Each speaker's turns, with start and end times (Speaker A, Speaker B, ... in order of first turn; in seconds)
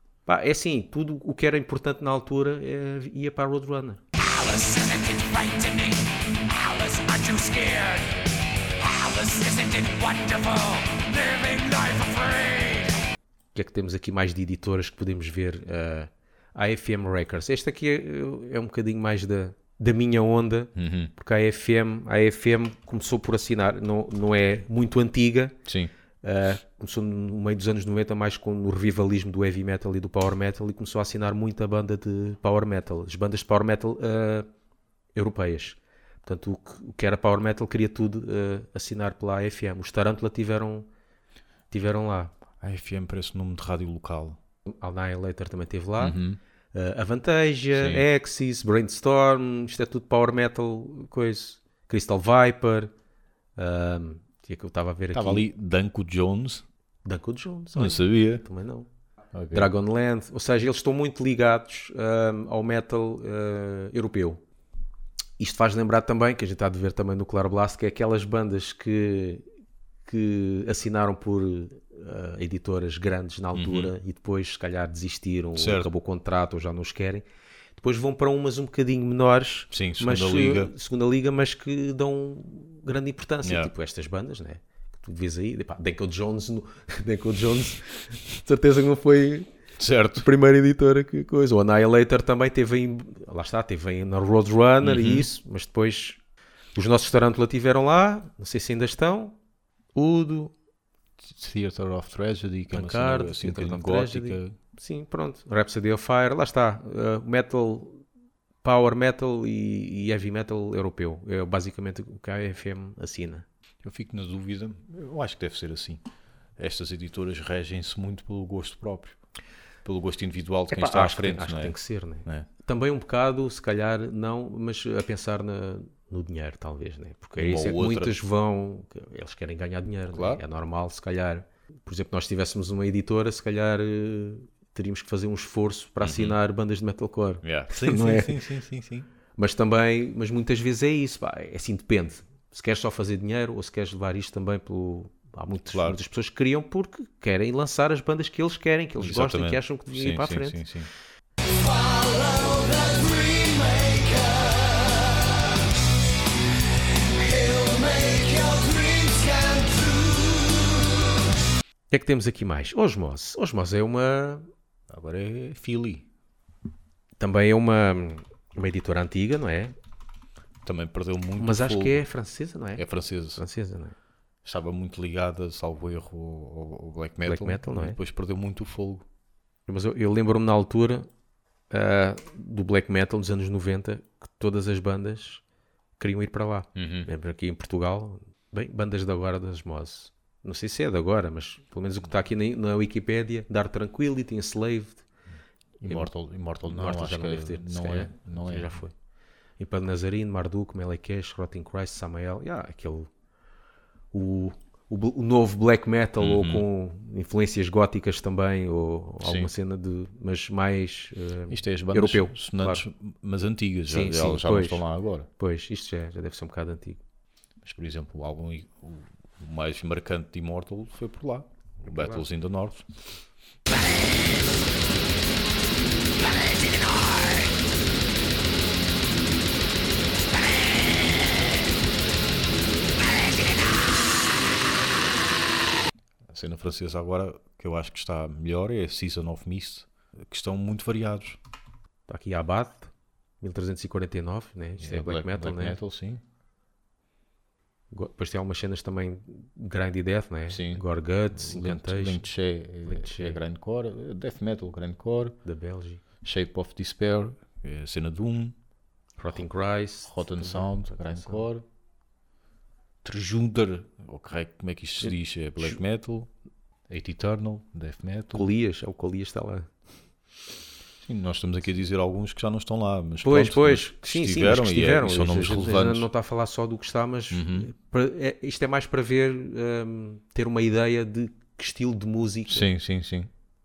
Speaker A: 0.3-4.0, 13.5-25.6, 26.2-34.5, 35.1-40.9, 41.7-42.3, 44.7-46.2, 46.7-52.9, 53.6-55.5, 57.0-58.9, 59.5-64.4, 65.4-69.4, 70.0-77.2, 77.8-89.5, 90.2-96.2, 96.7-99.3, 99.9-100.5, 102.7-108.0, 108.6-113.4, 120.7-138.4, 139.4-150.6, 161.9-164.5, 167.2-169.7, 171.4-172.8, 173.3-173.9, 177.2-178.0, 179.7-181.1, 181.7-185.4, 186.0-195.1, 195.8-196.1, 196.6-198.9, 199.6-203.1, 204.1-212.8, 213.9-214.8, 215.4-217.0, 221.9-222.2, 242.1-245.8, 247.9-252.3, 252.8-253.4, 255.4-256.0, 259.2-261.4, 268.3-269.7, 273.2-282.7
Speaker B: 4.2-8.2, 8.8-13.0, 151.6-155.2, 157.2-160.8, 226.3-227.4
Speaker C: 20.7-21.1, 25.6-25.9, 42.6-44.4, 46.0-46.4, 47.7-48.0, 55.1-56.6, 57.8-58.4, 59.3-59.7, 73.5-73.9, 75.5-75.9, 79.7-80.7, 83.4-83.7, 89.8-90.3, 94.8-95.3, 101.2-104.5, 113.8-116.0, 116.6-119.2, 119.8-122.5, 127.4-128.1, 130.1-130.4, 136.0-136.4, 137.4-139.1, 145.7-146.0, 149.0-150.9, 164.9-166.1, 170.6-172.0, 172.8-173.4, 174.4-179.0, 186.7-187.1, 195.8-198.8, 206.2-206.7, 209.2-209.5, 211.5-215.3, 217.6-222.8, 236.3-241.4, 244.8-246.2, 250.5-250.8, 251.3-255.4, 256.2-258.5, 260.0-261.6, 263.0-266.3, 266.9-268.5, 271.0-276.1, 277.3-277.7, 282.5-283.3